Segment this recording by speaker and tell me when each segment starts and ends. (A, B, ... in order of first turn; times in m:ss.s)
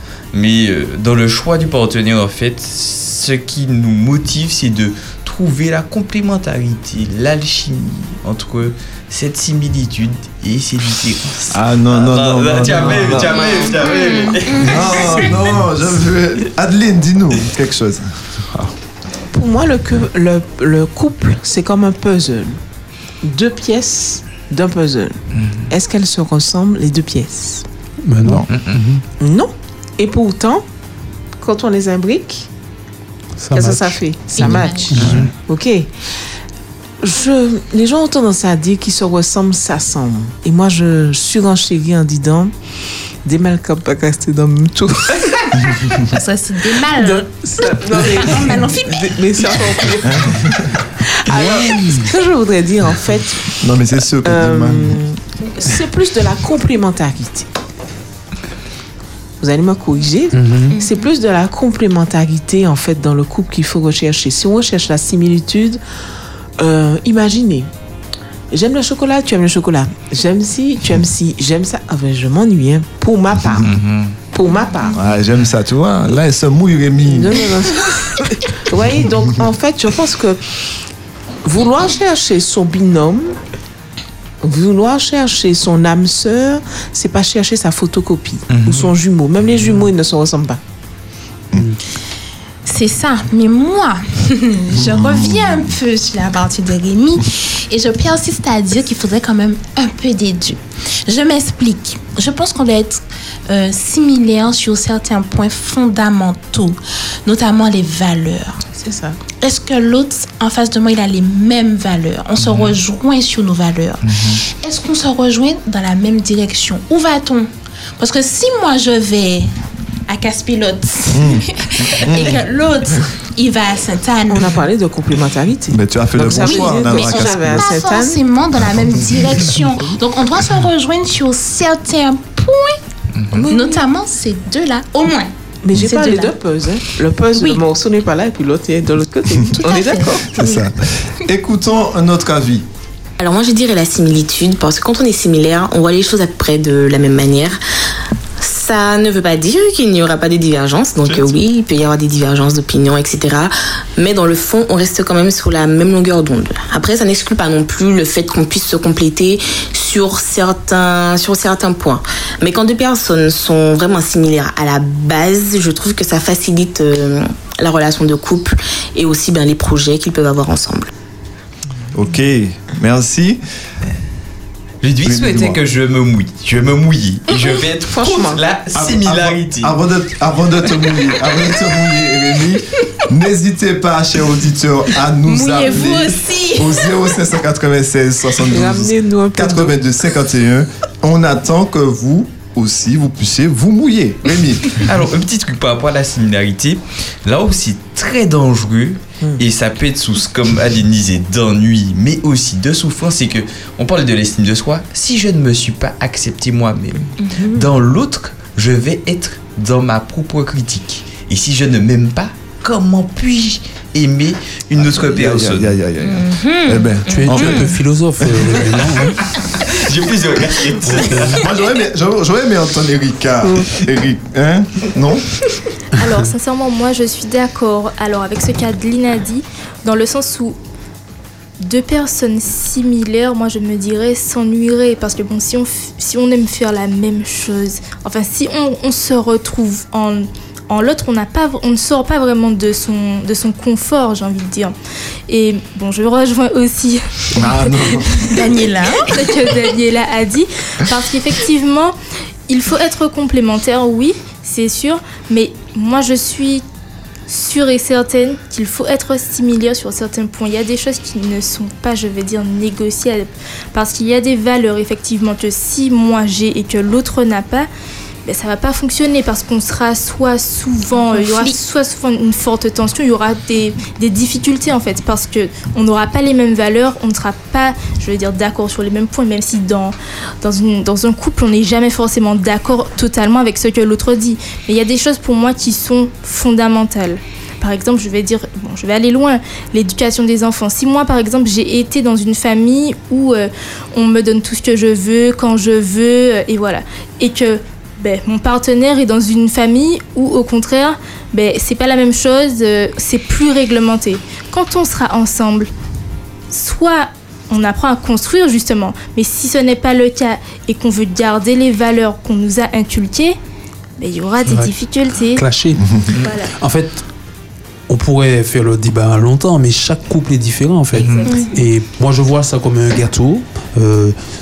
0:00.3-0:15.5 A
0:11.4-0:13.6 B
0:13.4-0:15.2 C
0:14.6-0:18.1 B
0:19.3-0:22.6 D
0:23.2-0:27.6 D
0:25.3-0:25.7 A
0:28.0-0:29.0 E
0:28.5-0:28.8 A
0:29.2-0:30.6 D
0:31.4-0:32.5 D
0:33.4-0:35.3 E
0:33.5-0:35.9 D
0:34.4-0:34.9 C
0:34.9-0:35.2 A
0:37.0-0:42.5 D
0:43.2-0:45.8 D
0:46.1-0:49.0 C
0:46.8-0:50.6 D
0:50.1-0:50.6 B
0:51.3-0:53.6 D
0:51.3-0:52.1 E
0:53.6-0:55.0 B
0:54.2-0:57.5 D
0:59.4-1:05.8 D
1:00.3-1:00.8 E
1:06.6-1:07.7 D
1:08.5-1:13.7 D
1:13.6-1:14.2 A
1:14.3-1:15.0 D
1:14.9-1:17.4 B
1:17.1-1:20.4 D
1:21.4-1:23.3 D
1:24.4-1:30.6 D
1:28.5-1:28.9 A
1:32.6-1:48.6 C
1:34.8-1:35.6 B
1:48.7-1:49.2 D
1:49.4-1:54.0 C
1:52.4-1:52.8 A
1:54.1-1:54.4 A
1:54.6-1:59.5 C
2:00.1-2:04.6 C
2:01.1-2:02.4 B
2:04.3-2:08.2 D
2:05.7-2:07.7 B
2:06.4-2:12.8 C
2:13.2-2:13.5 A
2:13.3-2:13.8 D
2:13.5-2:16.3 C
2:15.6-2:20.6 D
2:19.6-2:20.1 C
2:20.3-2:22.7 B
2:23.2-2:27.6 F
2:28.4-2:50.9 F
2:51.9-2:53.4 B
2:54.8-2:59.8 A
2:55.0-2:55.6 B
2:57.9-2:58.4 D
2:58.7-3:14.8 B
3:05.3-3:06.9 C
3:08.5-3:09.8 D
3:14.8-3:35.8 A
3:27.2-3:27.7 C
3:34.7-3:37.7 B
3:36.0-3:37.6 C
3:37.1-3:39.2 E
3:38.2-3:38.8 B
3:39.7-3:41.4 A
3:40.8-3:41.5 E
3:41.3-3:45.2 B
3:46.0-3:50.6 G
3:51.6-4:04.8 G
4:05.3-4:07.9 G
4:07.4-4:08.4 B
4:08.3-4:09.2 C
4:09.0-4:12.0 G
4:12.5-4:16.6 G
4:17.3-4:27.7 G
4:28.2-5:05.7 G
4:31.1-4:31.6 C
5:06.5-5:13.4 G
5:14.0-5:15.4 G
5:14.5-5:14.7 E
5:15.4-5:16.0 E
5:16.2-5:16.5 G
5:16.6-5:17.0 E
5:17.9-5:24.2 E
5:20.9-5:21.3 A
5:21.2-5:21.6 G